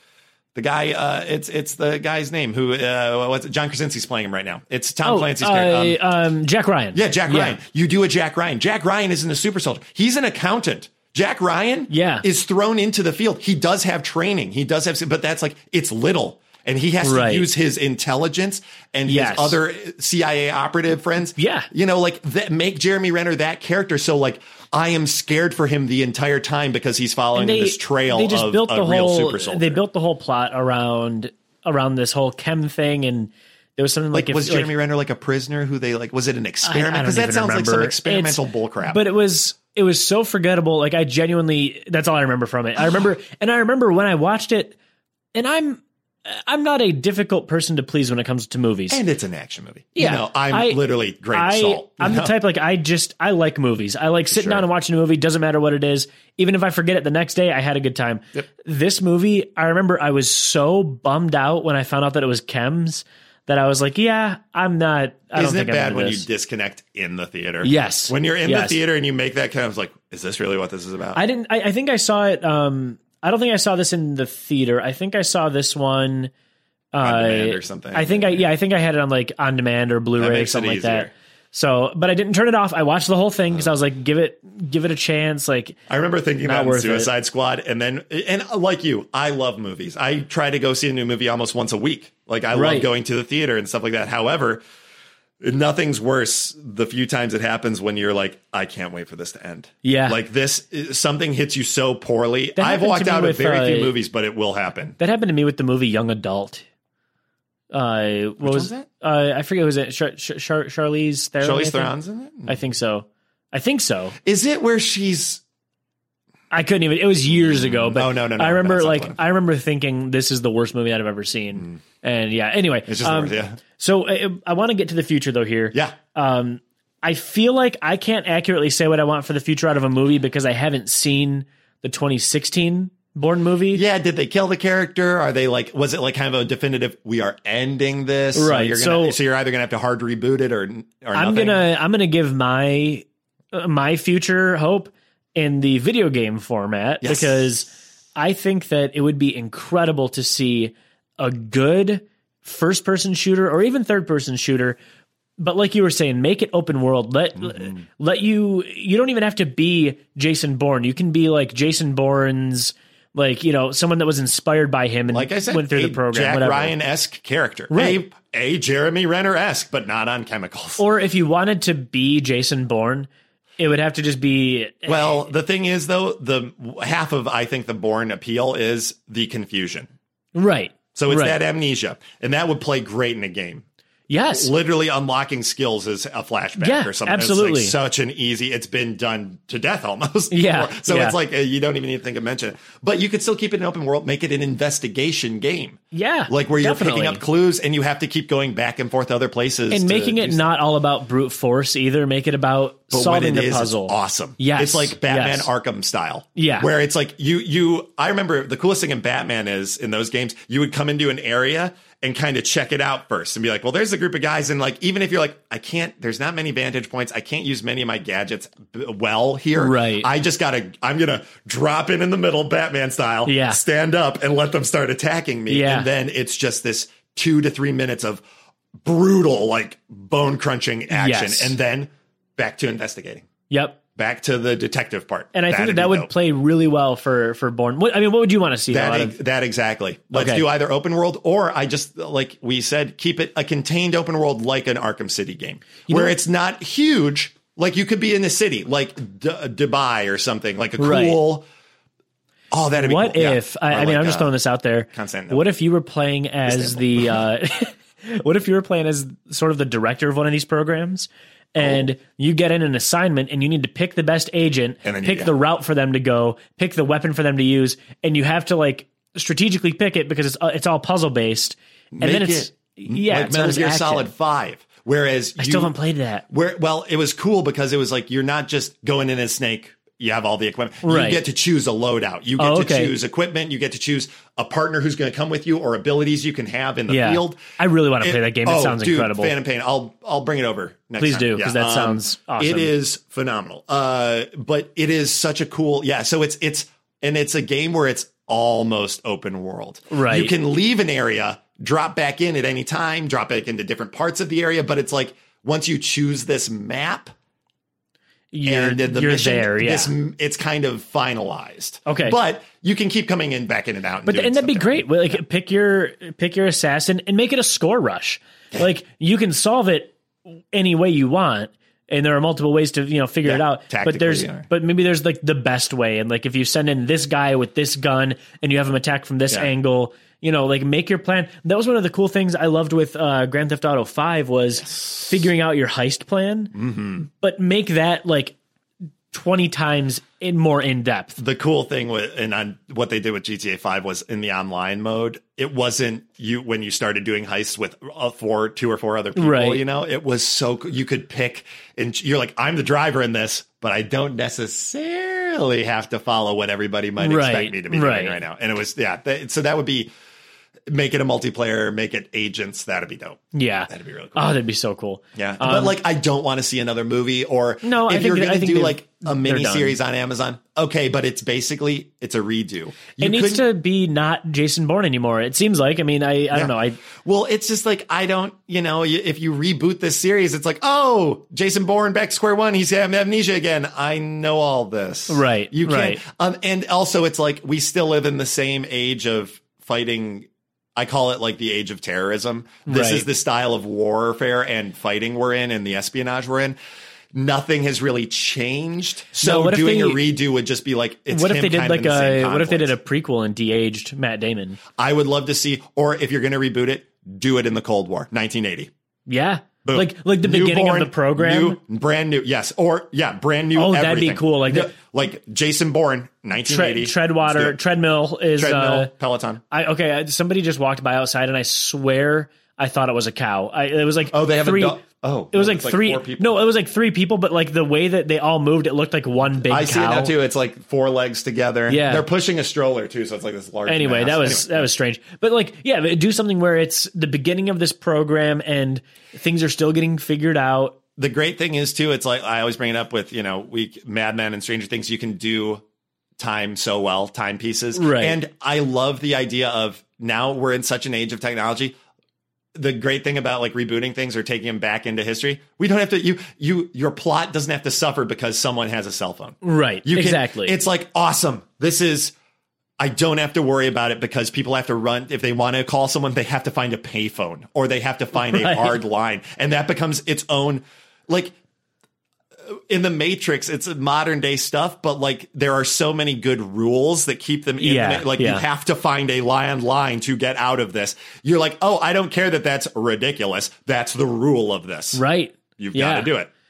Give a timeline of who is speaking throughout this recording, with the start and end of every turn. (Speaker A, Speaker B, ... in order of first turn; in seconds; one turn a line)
Speaker A: 0.5-6.0
Speaker B: 5.0-7.6
Speaker A: 6.9-29.8
Speaker B: 11.9-12.2
Speaker B: 17.0-17.5
Speaker B: 19.1-19.6
Speaker B: 21.4-21.7
Speaker B: 27.3-34.7
Speaker A: 34.1-39.0
Speaker B: 36.6-44.8
Speaker B: 45.3-49.0
Speaker A: 48.9-52.3
Speaker B: 50.0-50.8
Speaker B: 51.3-66.2
Speaker A: 54.3-54.6
Speaker A: 65.3-71.2
Speaker B: 67.6-68.8
Speaker B: 71.1-76.3
Speaker B: 76.9-85.8
Speaker A: 77.0-78.4
Speaker A: 80.2-81.1
Speaker A: 85.9-94.6
Speaker B: 86.4-87.1
Speaker B: 92.5-92.9
Speaker A: 95.4-105.0
Speaker B: 99.8-100.2
Speaker B: 102.6-103.9
Speaker B: 105.0-106.7
Speaker B: 107.7-111.9
Speaker A: 108.4-108.9
Speaker A: 111.4-112.6
Speaker B: 112.5-114.2
Speaker A: 114.2-115.4
Speaker B: 116.5-133.8
Speaker A: 117.7-119.2
Speaker A: 122.9-123.6
Speaker A: 133.7-141.6
Speaker B: 138.3-139.2
Speaker B: 141.1-154.8
Speaker A: 147.0-147.4
Speaker B: 155.4-166.7
Speaker A: 165.1-170.8
Speaker B: 167.7-168.0
Speaker B: 170.8-175.3
Speaker A: 174.8-179.9
Speaker B: 180.3-181.4
Speaker A: 180.9-183.6
Speaker B: 184.1-184.5
Speaker A: 184.3-200.4
Speaker B: 186.6-187.7
Speaker B: 190.3-191.2
Speaker B: 195.9-197.2
Speaker B: 199.7-205.5
Speaker A: 202.9-228.2
Speaker B: 206.3-206.7
Speaker B: 219.6-220.1
Speaker B: 223.2-223.6
Speaker B: 225.5-225.9
Speaker A: 228.8-233.3
Speaker B: 230.9-231.6
Speaker B: 233.5-233.8
Speaker A: 233.9-236.1
Speaker B: 235.3-239.2
Speaker A: 238.7-251.5
Speaker B: 240.1-240.4
Speaker B: 245.9-246.1
Speaker B: 250.8-251.2
Speaker A: 252.5-254.3
Speaker B: 252.7-274.1
Speaker A: 254.9-255.4
Speaker A: 256.4-257.2
Speaker A: 261.6-261.9
Speaker A: 264.8-265.3
Speaker A: 271.9-275.7
Speaker B: 275.4-276.2
Speaker A: 276.3-287.4
Speaker B: 280.8-281.2
Speaker B: 282.4-282.9
Speaker B: 286.9-289.3
Speaker A: 288.0-307.1
Speaker B: 291.0-292.7
Speaker B: 299.9-300.3
Speaker B: 308.3-309.9
Speaker A: 308.4-315.2
Speaker B: 311.9-312.2
Speaker B: 314.1-320.0
Speaker B: 320.5-338.4
Speaker A: 323.2-324.5
Speaker A: 336.6-337.0
Speaker B: 339.1-341.2
Speaker A: 341.2-359.9
Speaker B: 349.1-349.6
Speaker B: 357.0-358.2
Speaker A: 360.7-364.3
Speaker B: 363.3-365.8
Speaker A: 365.1-373.4
Speaker B: 367.6-369.8
Speaker B: 373.0-376.8
Speaker A: 376.3-396.6
Speaker B: 385.1-386.0
Speaker B: 392.7-393.1
Speaker A: 397.1-402.7
Speaker B: 399.2-400.0
Speaker B: 401.1-404.6
Speaker A: 404.8-408.7
Speaker B: 409.1-411.6
Speaker A: 409.6-417.6
Speaker B: 413.5-414.7
Speaker B: 416.4-418.9
Speaker A: 418.4-419.4
Speaker B: 419.5-424.8
Speaker A: 424.1-426.4
Speaker B: 425.3-430.1
Speaker A: 429.4-434.6
Speaker B: 431.7-432.0
Speaker B: 433.6-440.8
Speaker A: 441.0-445.6
Speaker A: 446.2-451.8
Speaker B: 447.7-448.2
Speaker A: 452.5-462.1
Speaker B: 459.4-460.6
Speaker A: 462.8-471.3
Speaker B: 468.2-468.8
Speaker A: 472.5-485.0
Speaker B: 477.6-478.4
Speaker B: 484.9-486.1
Speaker A: 485.6-486.3